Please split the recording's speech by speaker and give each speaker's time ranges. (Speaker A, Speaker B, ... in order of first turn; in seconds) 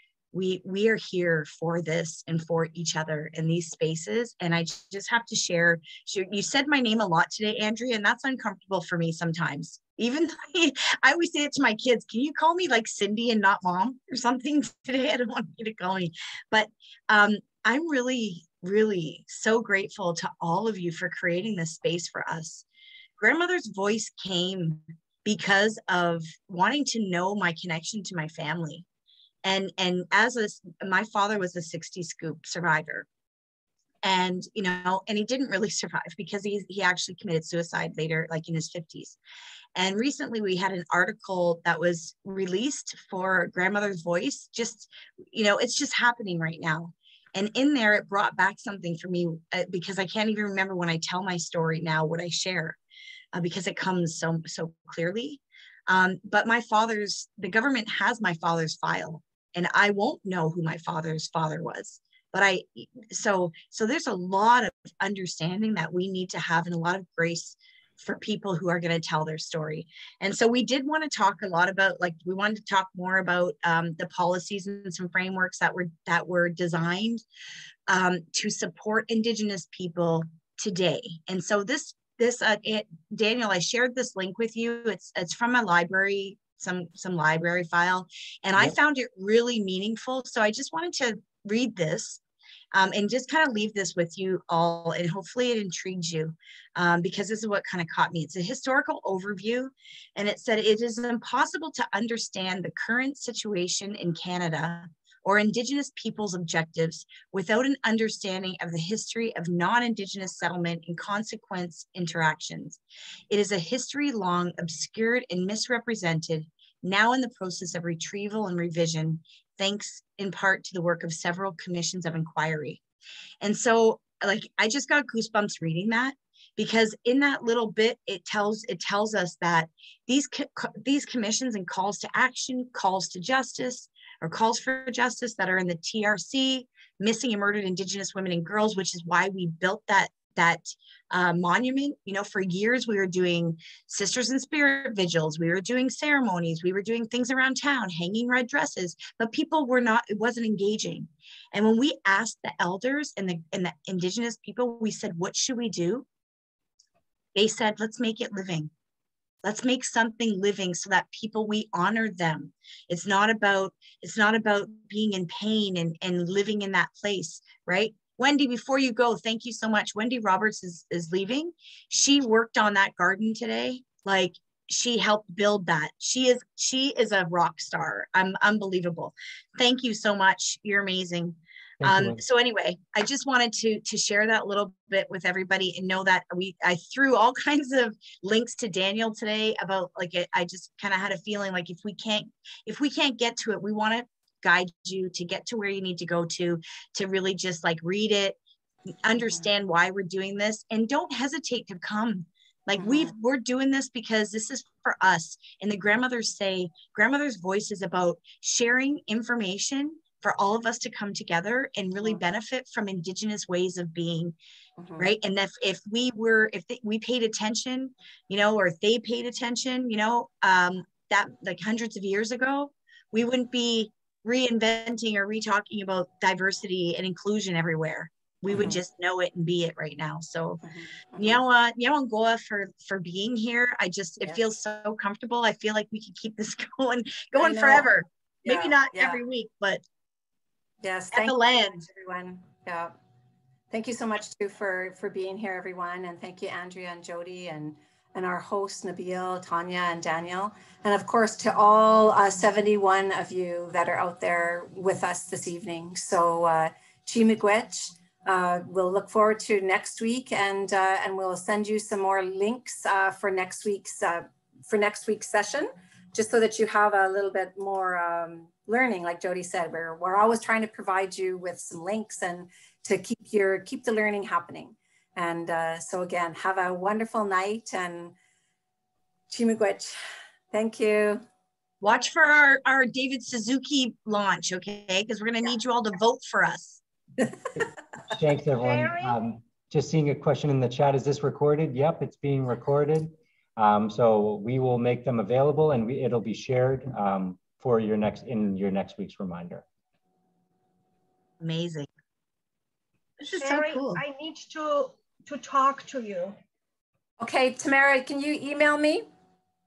Speaker A: 0.3-22.6, 23.2-28.9, 29.4-33.1, 34.0-39.2, 39.8-52.8, 53.3-77.2, 77.9-92.2, 92.7-122.8, 123.4-156.1, 157.3-158.7, 159.4-198.4, 199.0-214.3, 215.0-230.6, 231.2-239.8, 241.1-241.8, 281.8-286.8, 301.4-301.9, 303.3-304.0
Speaker B: 181.8-182.2, 288.1-299.6
Speaker C: 202.8-203.1, 214.8-215.1, 228.5-228.8, 230.6-231.4, 237.4-237.9, 238.4-239.2, 240.8-242.9, 243.7-278.1, 279.3-280.0, 280.5-281.2, 307.2-309.1
Speaker D: 288.6-289.2, 303.3-306.4